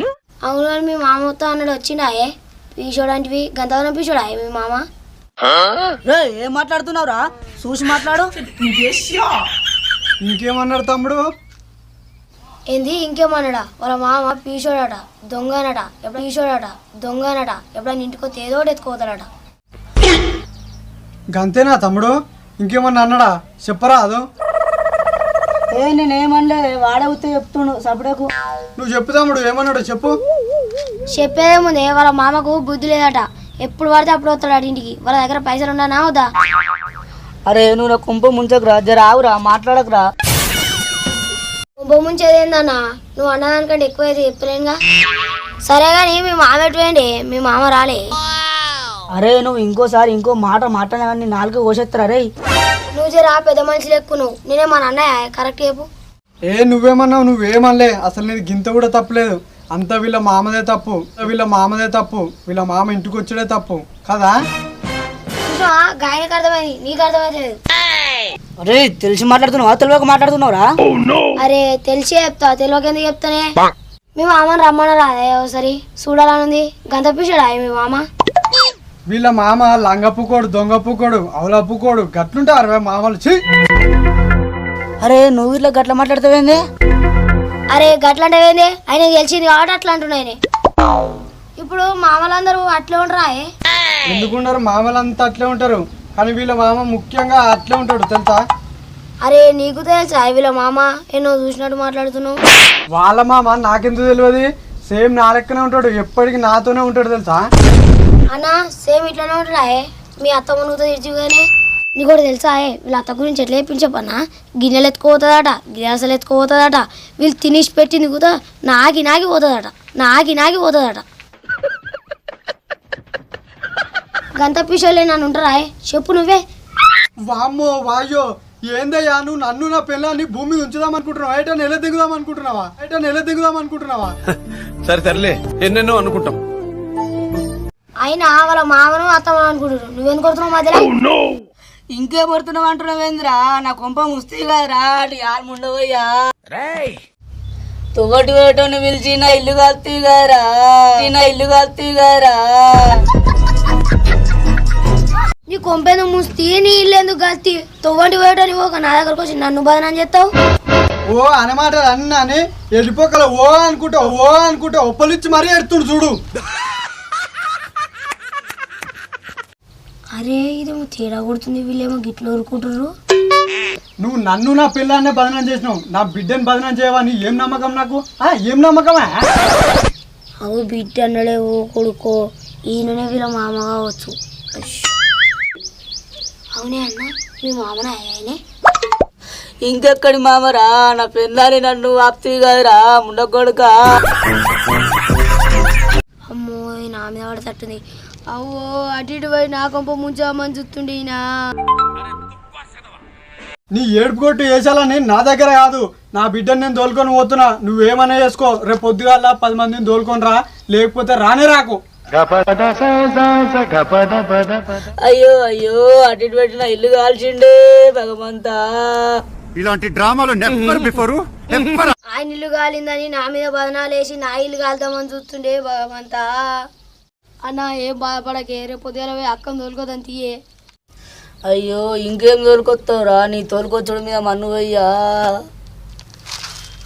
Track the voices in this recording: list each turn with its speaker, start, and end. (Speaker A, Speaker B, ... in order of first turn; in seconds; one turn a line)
Speaker A: 0.5-4.8
Speaker B: 6.0-9.3
Speaker C: 10.2-11.2
Speaker A: 12.7-19.3
Speaker C: 21.3-24.2
Speaker B: 25.7-28.3
Speaker C: 28.8-30.2
Speaker A: 31.1-36.3
Speaker B: 37.5-40.0
Speaker A: 41.8-44.8
Speaker A: 45.7-48.0
Speaker B: 49.1-52.3
Speaker A: 52.9-55.9
Speaker C: 56.5-64.4
Speaker A: 65.4-67.6
Speaker B: 68.6-70.7
Speaker A: 71.4-73.5
Speaker A: 74.2-78.0
Speaker C: 79.1-83.4
Speaker B: 85.0-86.6
Speaker A: 87.7-90.4
Speaker A: 91.6-93.5
Speaker C: 94.1-98.4
Speaker A: 99.2-102.4
Speaker C: 102.9-107.5
Speaker A: 108.3-121.0
Speaker A: 124.4-126.4
Speaker C: 127.3-134.2
Speaker C: 134.8-136.4
Speaker A: 138.0-140.9
Speaker B: 141.9-147.0
Speaker B: 147.9-153.0
Speaker A: 155.5-160.3
Speaker C: 161.1-166.2
Speaker A: 170.2-172.9
Speaker C: 174.0-179.2
Speaker A: 180.4-184.9
Speaker A: 186.6-188.4
Speaker B: 189.7-193.8
Speaker A: 196.3-201.2
Speaker C: 203.7-211.8
Speaker D: 212.2-213.3
Speaker B: 212.2-219.2
Speaker D: 219.6-221.9
Speaker A: 222.1-226.6
Speaker A: 227.5-230.4
Speaker B: 231.5-235.4